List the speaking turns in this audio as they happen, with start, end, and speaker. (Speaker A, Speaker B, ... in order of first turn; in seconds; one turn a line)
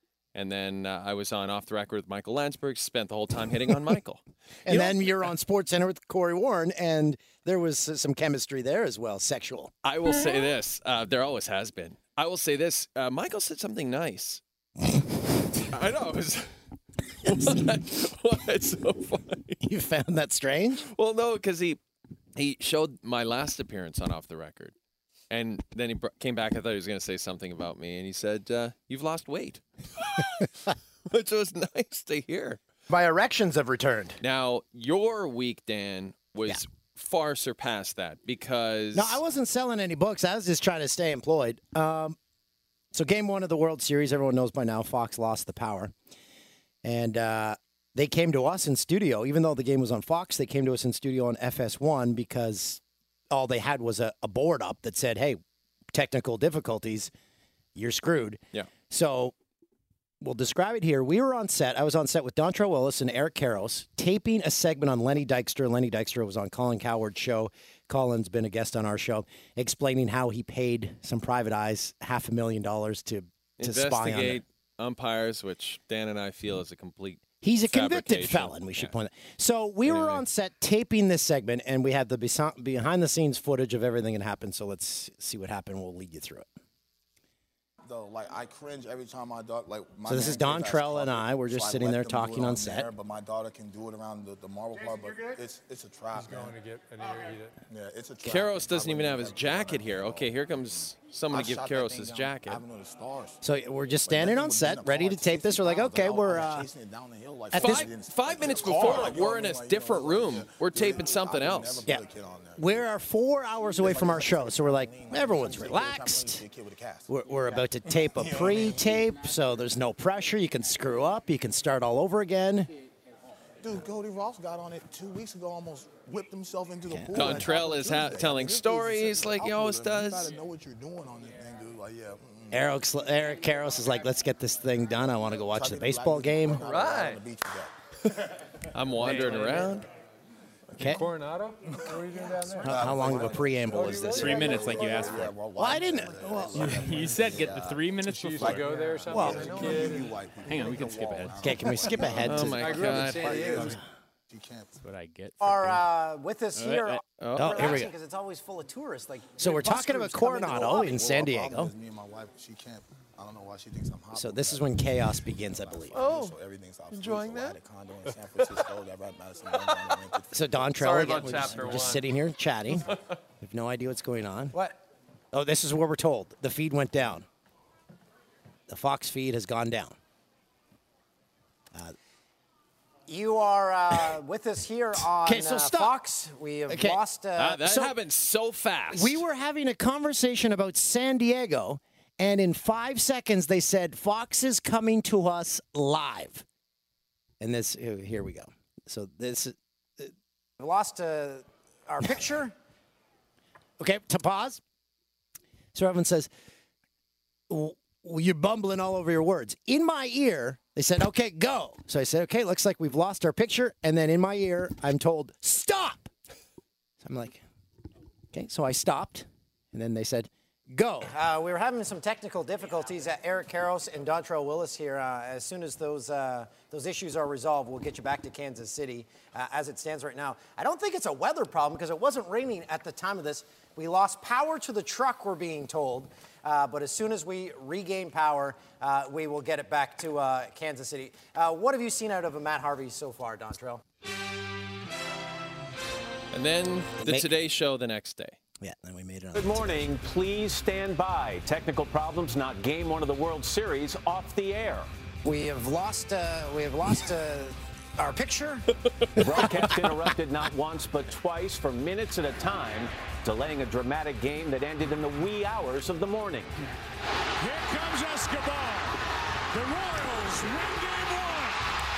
Speaker A: 0.3-5.0
Speaker B: 4.7-9.7
Speaker A: 9.8-14.4
Speaker A: 15.7-16.5
Speaker A: 17.2-19.6
Speaker B: 19.6-20.8
Speaker A: 20.9-21.8
Speaker A: 22.4-24.8
Speaker A: 25.3-30.5
Speaker A: 31.1-32.6
Speaker B: 32.9-34.2
Speaker A: 34.2-39.2
Speaker B: 38.9-42.2
Speaker B: 42.9-45.9
Speaker B: 46.8-55.4
Speaker B: 55.9-57.1
Speaker B: 57.8-59.3
Speaker B: 60.2-74.4
Speaker A: 73.6-78.9
Speaker B: 77.4-86.5
Speaker A: 79.9-80.2
Speaker C: 87.8-103.4
Speaker B: 90.1-92.9
Speaker D: 96.7-97.5
Speaker A: 98.2-102.6
Speaker B: 103.4-106.7
Speaker C: 104.0-112.9
Speaker B: 107.5-107.9
Speaker A: 107.5-111.8
Speaker B: 112.6-116.4
Speaker C: 113.8-118.8
Speaker B: 117.1-122.7
Speaker C: 123.6-132.6
Speaker B: 126.9-127.5
Speaker A: 127.2-130.3
Speaker B: 132.5-136.6
Speaker C: 135.4-137.7
Speaker A: 136.6-137.2
Speaker A: 138.7-139.9
Speaker C: 139.0-139.5
Speaker D: 139.3-139.5
Speaker B: 140.8-141.1
Speaker D: 141.0-142.4
Speaker C: 142.6-154.8
Speaker B: 142.6-144.5
Speaker E: 144.1-145.5
Speaker B: 145.5-146.8
Speaker E: 146.5-148.9
Speaker D: 148.4-150.1
Speaker B: 149.1-149.5
Speaker E: 150.4-151.7
Speaker B: 151.4-152.8
Speaker A: 152.2-153.4
Speaker D: 153.2-153.7
Speaker E: 154.8-155.8
Speaker F: 155.4-161.0
Speaker E: 156.6-157.0
Speaker A: 157.2-157.7
Speaker B: 157.4-157.9
Speaker B: 159.4-161.7
Speaker C: 159.4-171.8
Speaker B: 164.1-166.0
Speaker A: 165.9-166.3
Speaker A: 166.9-167.6
Speaker B: 170.3-172.9
Speaker A: 170.8-172.1
Speaker B: 173.4-174.6
Speaker F: 174.5-174.8
Speaker B: 175.3-177.3
Speaker B: 178.7-180.0
Speaker F: 183.1-187.9
Speaker B: 185.2-186.0
Speaker B: 186.7-187.0
Speaker A: 187.4-189.2
Speaker B: 187.7-187.9
Speaker B: 188.9-196.4
Speaker B: 197.4-200.1
Speaker F: 200.6-202.5
Speaker B: 203.8-204.6
Speaker B: 205.7-206.3
Speaker B: 207.5-216.1
Speaker B: 217.0-217.4
Speaker B: 218.3-221.2
Speaker F: 221.1-243.8
Speaker A: 246.3-248.4
Speaker B: 247.0-247.3
Speaker B: 248.6-249.9
Speaker G: 249.4-254.9
Speaker F: 255.2-258.7
Speaker G: 259.2-266.5
Speaker H: 267.4-269.0
Speaker H: 269.5-271.6